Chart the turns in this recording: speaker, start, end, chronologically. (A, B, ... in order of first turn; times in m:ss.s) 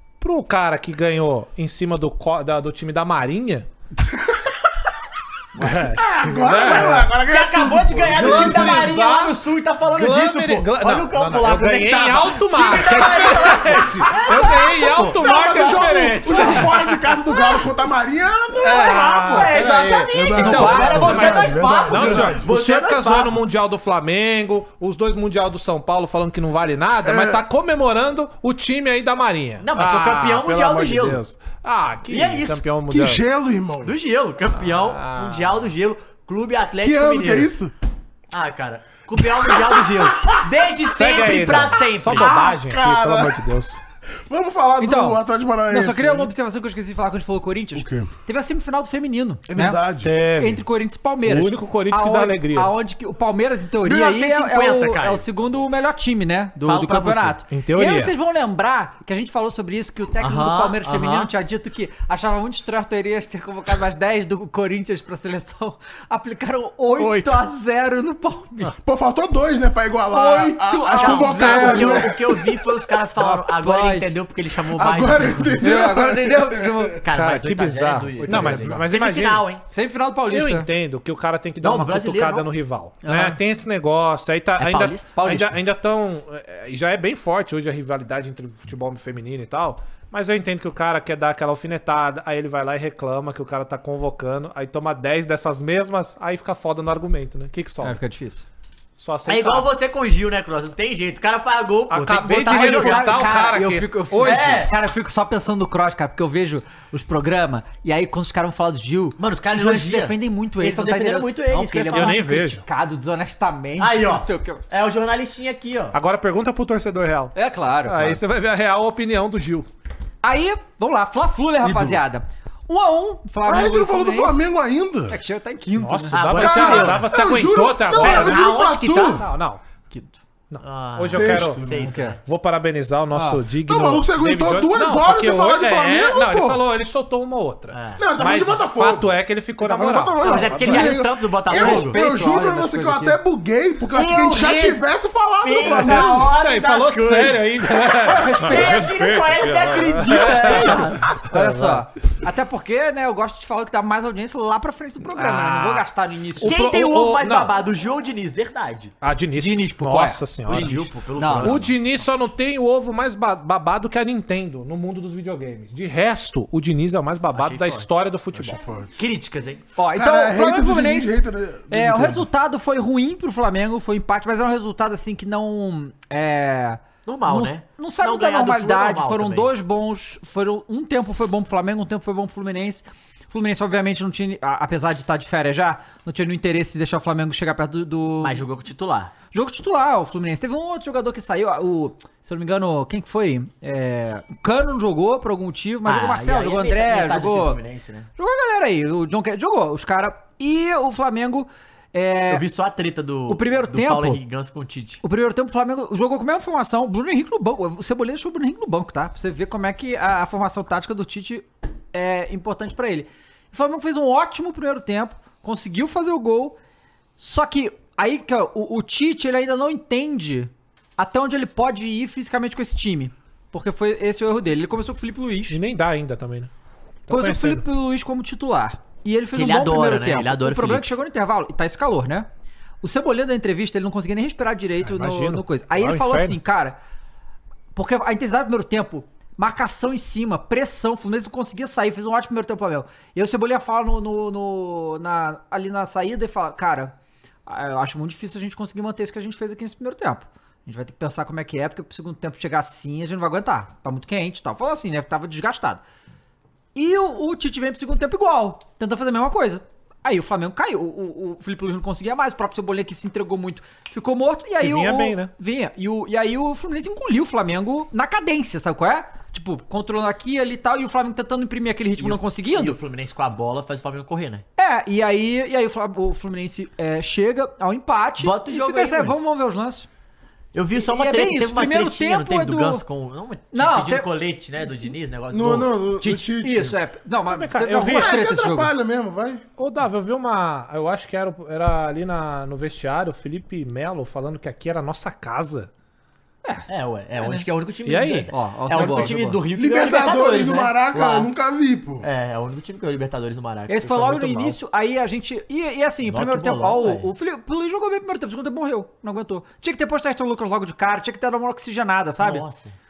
0:00.2-0:03.7 A
0:05.6-0:07.1 A
0:06.0-0:09.0 B
0:06.7-0:15.7 C
0:08.1-0:17.2 A
0:12.8-0:14.2 B
0:15.1-0:22.5 B
0:18.6-0:33.2 A
0:18.7-0:23.4 C
0:27.0-0:27.4 B
0:29.6-0:31.2 C
0:32.1-0:32.7 C
0:32.9-0:34.0 B
0:33.8-0:37.5 C
0:34.6-0:35.7 A
0:36.8-0:37.7 B
0:38.3-0:42.4 C
0:39.2-0:40.4 B
0:40.9-0:43.8 A
0:42.2-0:43.4 B
0:44.3-0:46.3 B
0:44.8-0:49.8 D
0:47.8-0:48.1 B
0:49.5-0:50.1 B
0:50.0-0:50.6 A
0:50.4-1:08.8 D
0:51.2-0:52.7 A
0:53.8-0:55.3 C
0:56.6-0:57.4 C
0:57.5-0:58.1 A
1:00.2-1:01.3 C
1:07.0-1:07.4 C
1:08.8-1:12.5 B
1:10.1-1:12.1 D
1:10.9-1:15.8 C
1:13.2-1:14.1 D
1:14.7-1:16.9 B
1:15.6-1:17.0 D
1:17.0-1:19.6 C
1:17.1-1:19.5 A
1:18.2-1:18.7 D
1:19.7-1:20.7 D
1:20.3-1:38.0 A
1:21.6-1:22.4 C
1:23.0-1:23.4 D
1:24.6-1:25.2 C
1:25.2-1:25.5 D
1:37.8-1:38.5 D
1:39.0-1:39.7 A
1:39.3-1:43.6 C
1:41.9-1:44.7 A
1:42.5-1:54.6 D
1:44.2-1:44.7 C
1:49.2-1:52.2 C
1:51.9-1:52.6 A
1:53.8-1:56.0 C
1:55.9-1:59.7 A
1:57.4-1:58.2 D
2:00.2-2:04.4 D
2:03.4-2:05.2 B
2:05.1-2:06.8 D
2:05.7-2:08.6 A
2:06.1-2:07.1 C
2:06.4-2:09.2 B
2:07.9-2:09.2 C
2:09.2-2:09.6 A
2:09.9-2:12.2 C
2:10.5-2:11.6 A
2:11.1-2:12.0 B
2:11.8-2:12.2 D
2:12.2-2:21.0 A
2:13.1-2:13.4 D
2:13.7-2:16.6 B
2:17.7-2:18.1 C
2:18.0-2:26.4 B
2:20.2-2:22.0 C
2:21.5-2:23.2 D
2:23.9-2:24.9 C
2:25.4-2:31.1 C
2:25.6-2:31.8 A
2:30.4-2:36.6 D
2:35.2-2:37.5 A
2:36.4-2:38.9 C
2:39.0-2:48.6 A
2:39.4-2:41.7 D
2:40.5-2:41.8 C
2:47.3-2:47.9 C
2:48.3-2:48.9 B
2:49.0-2:49.6 C
2:49.8-3:08.4 D
2:49.9-2:52.3 B
2:57.1-2:59.5 C
3:08.2-3:09.1 C
3:09.3-3:17.6 D
3:15.8-3:18.1 C
3:18.2-3:22.4 D
3:22.3-3:25.0 C
3:23.3-3:24.2 D
3:25.0-3:36.6 D
3:37.2-3:45.6 D
3:45.5-3:46.5 A
3:47.1-3:47.6 A
3:47.1-3:52.3 D
3:49.3-3:51.0 C
3:52.8-3:56.8 D
3:54.8-3:56.4 A
3:57.7-4:06.9 D
4:07.5-4:15.8 D
4:16.8-4:32.8 D
4:24.6-4:25.3 A
4:32.0-4:34.4 C
4:34.6-4:39.9 D
4:38.2-4:39.2 C
4:40.5-4:45.7 C
4:40.8-4:42.8 D
4:43.5-4:44.1 D
4:45.3-4:46.8 B
4:46.0-4:48.7 D
4:47.3-4:48.2 A
4:47.8-4:49.4 B
4:49.6-4:55.7 A
4:56.7-5:01.3 C
4:57.2-4:57.5 D
4:57.9-4:59.1 A
4:58.3-4:59.4 D
4:59.5-5:02.1 B
5:02.0-5:04.6 C
5:03.7-5:12.4 D
5:06.0-5:07.1 C
5:12.2-5:12.8 C